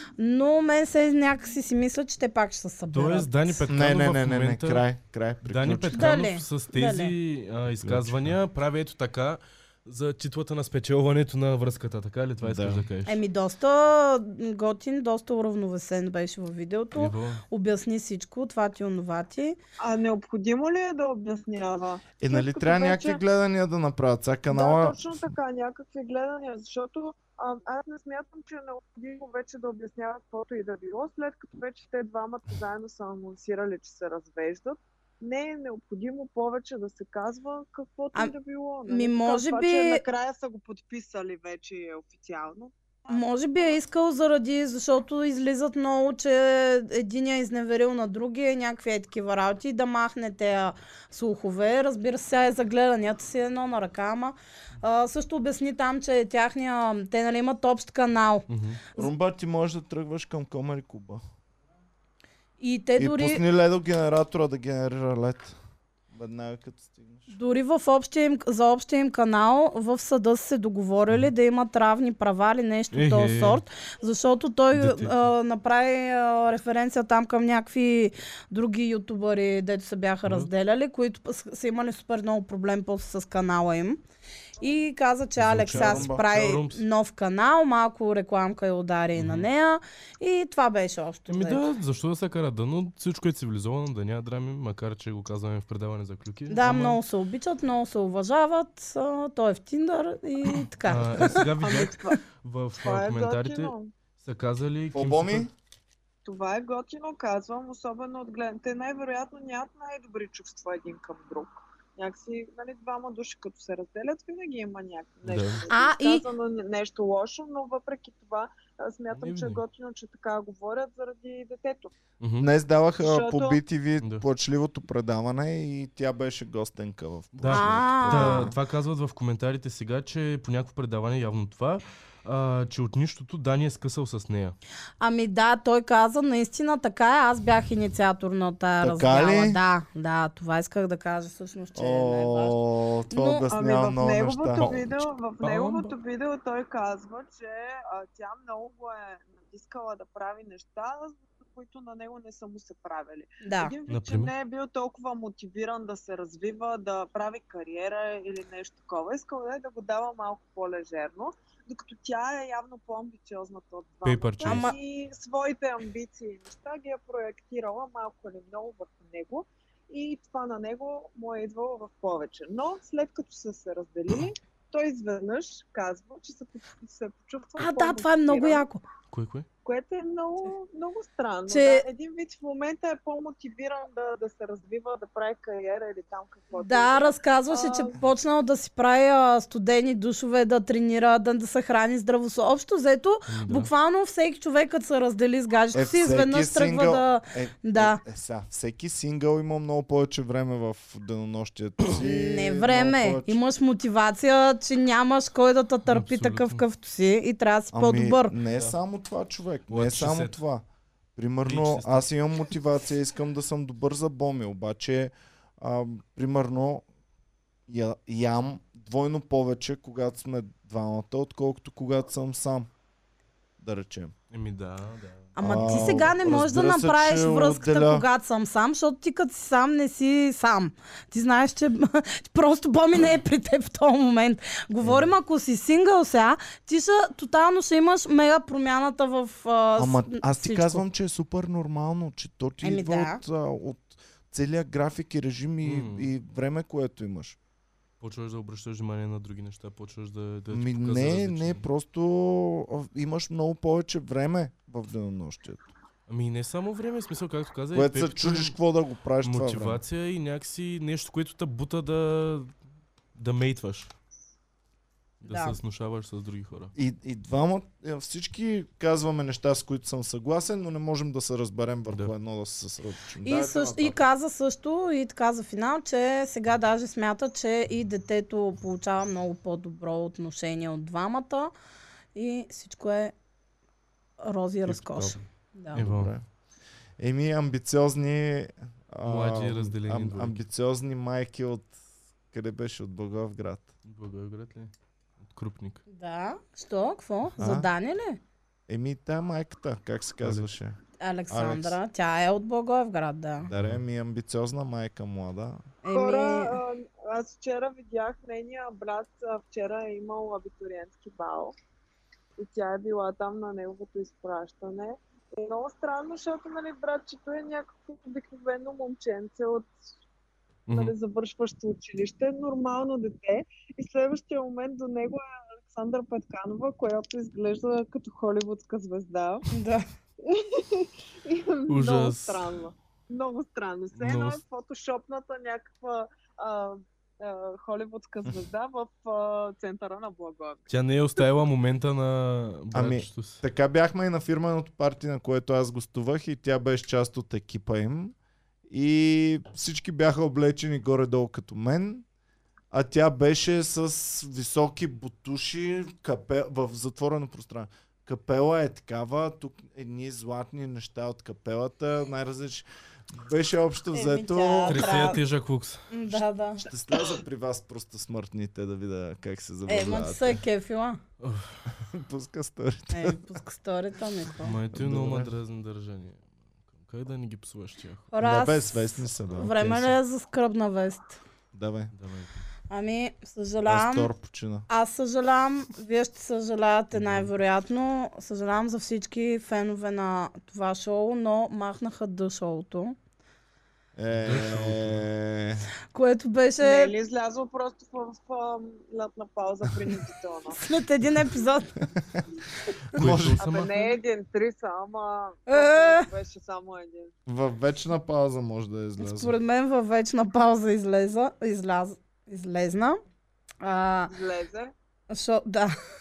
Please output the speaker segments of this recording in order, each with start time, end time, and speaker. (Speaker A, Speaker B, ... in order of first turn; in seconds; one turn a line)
Speaker A: 0.2-3.3
Speaker B: 2.9-4.8
Speaker C: 3.7-6.1
Speaker B: 5.4-13.2
Speaker A: 5.9-7.1
Speaker C: 7.7-8.4
Speaker C: 12.4-12.8
Speaker A: 13.1-19.6
Speaker B: 16.9-17.4
Speaker D: 19.8-23.2
Speaker C: 22.2-25.3
Speaker D: 24.5-43.8
Speaker A: 38.9-40.0
Speaker A: 43.1-58.5
Speaker B: 58.5-58.8
Speaker C: 58.9-61.2
Speaker A: 62.6-63.4
Speaker C: 63.0-65.5
Speaker C: 66.1-67.3
Speaker A: 67.3-84.0
Speaker B: 72.9-73.6
Speaker B: 74.7-75.2
Speaker B: 80.2-80.5
Speaker A: 84.6-91.6
Speaker B: 85.4-86.8
Speaker C: 85.5-86.2
Speaker B: 89.2-89.5
Speaker B: 91.3-97.0
Speaker A: 96.5-101.5
Speaker B: 100.8-105.5
Speaker D: 101.6-102.2
Speaker D: 102.8-103.9
Speaker C: 104.9-105.5
Speaker D: 106.2-121.9
Speaker B: 115.2-115.6
Speaker A: 115.7-116.2
Speaker B: 119.1-119.6
Speaker B: 122.2-122.5
Speaker C: 122.4-128.6
Speaker D: 123.0-123.6
Speaker B: 127.3-134.6
Speaker A: 127.5-128.5
Speaker A: 135.0-142.6
Speaker C: 138.8-139.6
Speaker C: 141.7-145.0
Speaker A: 143.1-143.4
Speaker D: 143.5-178.6
Speaker B: 145.4-145.9
Speaker A: 153.4-153.7
Speaker B: 153.9-154.3
Speaker B: 164.0-164.7
Speaker A: 164.4-164.7
Speaker A: 177.6-178.8
Speaker B: 179.1-179.4
Speaker D: 179.6-188.0
Speaker A: 181.5-181.8
Speaker A: 186.5-198.0
Speaker B: 193.3-193.7
Speaker C: 195.7-203.4
Speaker A: 201.9-208.3
Speaker B: 205.9-206.6
Speaker C: 207.7-210.6
Speaker B: 209.7-210.4
Speaker C: 211.2-216.8
Speaker B: 211.4-212.1
Speaker C: 217.7-222.7
Speaker C: 223.6-224.1
Speaker B: 224.3-225.3
Speaker A: 225.3-240.8
Speaker C: 225.4-228.1
Speaker C: 234.8-235.1
Speaker C: 239.8-247.4
Speaker A: 242.6-243.2
Speaker B: 245.6-246.1
Speaker B: 248.0-251.7
Speaker C: 250.5-255.7
Speaker B: 256.1-258.6
Speaker C: 257.7-259.8
Speaker B: 259.2-262.5
Speaker B: 263.1-263.9
Speaker B: 265.2-266.7
Speaker A: 265.2-265.6
Speaker C: 266.7-274.0
Speaker A: 273.2-281.5
Speaker A: 282.1-283.1
Speaker A: 284.2-285.9
Speaker C: 284.6-285.2
Speaker B: 285.7-286.1
Speaker C: 285.8-286.2
Speaker C: 287.0-291.7
Speaker B: 289.0-290.4
Speaker C: 292.3-293.7
Speaker B: 293.8-295.8
Speaker A: 295.9-298.2
Speaker C: 297.4-297.7
Speaker C: 298.7-300.8
Speaker B: 300.2-300.5
Speaker A: 301.0-303.5
Speaker C: 301.3-301.8
Speaker B: 303.5-303.8
Speaker C: 303.5-305.6
Speaker A: 305.8-306.6
Speaker D: 305.9-311.5
Speaker D: 312.4-319.7
Speaker B: 320.7-320.9
Speaker D: 320.7-329.5
Speaker A: 329.5-329.8
Speaker D: 330.2-341.2
Speaker B: 331.7-332.5
Speaker B: 333.9-334.4
Speaker B: 340.7-343.4
Speaker C: 342.7-348.1
Speaker C: 348.7-352.0
Speaker C: 352.7-365.1
Speaker A: 363.9-365.2
Speaker B: 364.7-365.8
Speaker A: 365.9-366.6
Speaker C: 366.1-370.4
Speaker A: 369.7-371.0
Speaker B: 371.2-371.5
Speaker C: 371.7-373.2
Speaker A: 372.9-374.6
Speaker B: 374.4-378.1
Speaker C: 374.7-375.3
Speaker A: 378.1-381.2
Speaker C: 378.2-380.0
Speaker C: 381.5-381.9
Speaker B: 381.9-382.4
Speaker A: 382.7-384.1
Speaker C: 383.7-384.7
Speaker A: 384.7-392.9
Speaker B: 386.9-387.3
Speaker C: 393.9-395.7
Speaker B: 394.2-395.0
Speaker A: 395.9-396.9
Speaker D: 396.6-400.6
Speaker A: 400.5-401.8
Speaker C: 402.9-403.4
Speaker B: 402.9-403.9
Speaker D: 403.4-407.1
Speaker A: 405.5-406.1
Speaker C: 407.3-409.4
Speaker A: 409.0-413.0
Speaker A: 413.6-414.1
Speaker D: 414.1-414.7
Speaker A: 415.1-415.7